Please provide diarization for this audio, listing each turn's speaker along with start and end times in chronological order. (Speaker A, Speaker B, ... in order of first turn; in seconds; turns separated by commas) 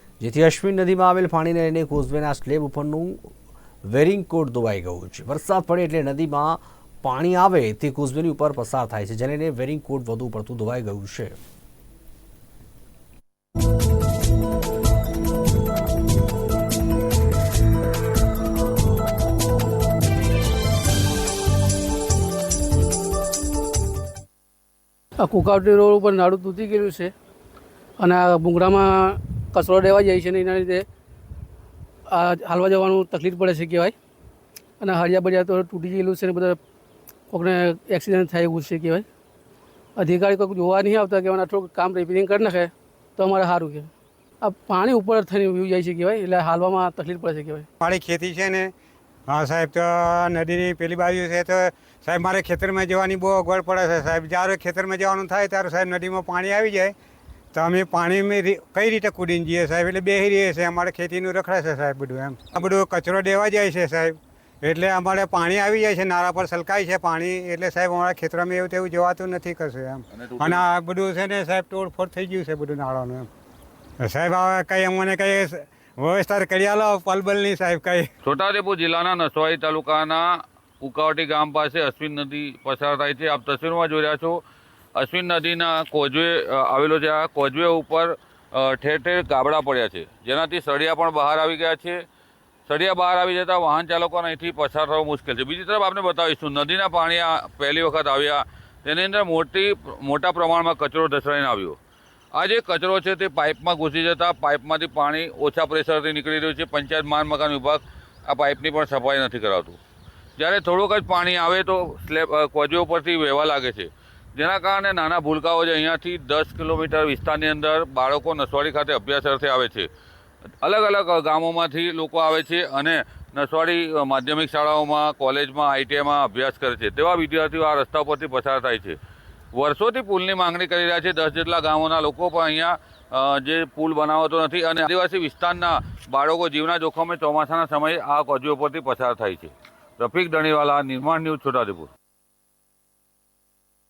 Speaker A: 0.2-3.3, Speaker A: 3.9-11.4, Speaker B: 25.2-27.1, Speaker B: 28.0-30.9, Speaker B: 32.1-34.0, Speaker B: 34.8-36.6, Speaker B: 37.3-39.0, Speaker B: 40.0-43.9, Speaker B: 44.4-47.7, Speaker C: 47.8-48.7, Speaker C: 49.3-56.9, Speaker C: 57.5-73.3, Speaker D: 70.2-70.6, Speaker C: 74.0-78.1, Speaker D: 78.2-84.4, Speaker D: 85.0-92.0, Speaker D: 92.7-101.8, Speaker D: 102.3-109.8, Speaker D: 110.4-119.9, Speaker D: 120.6-129.0, Speaker D: 129.5-141.9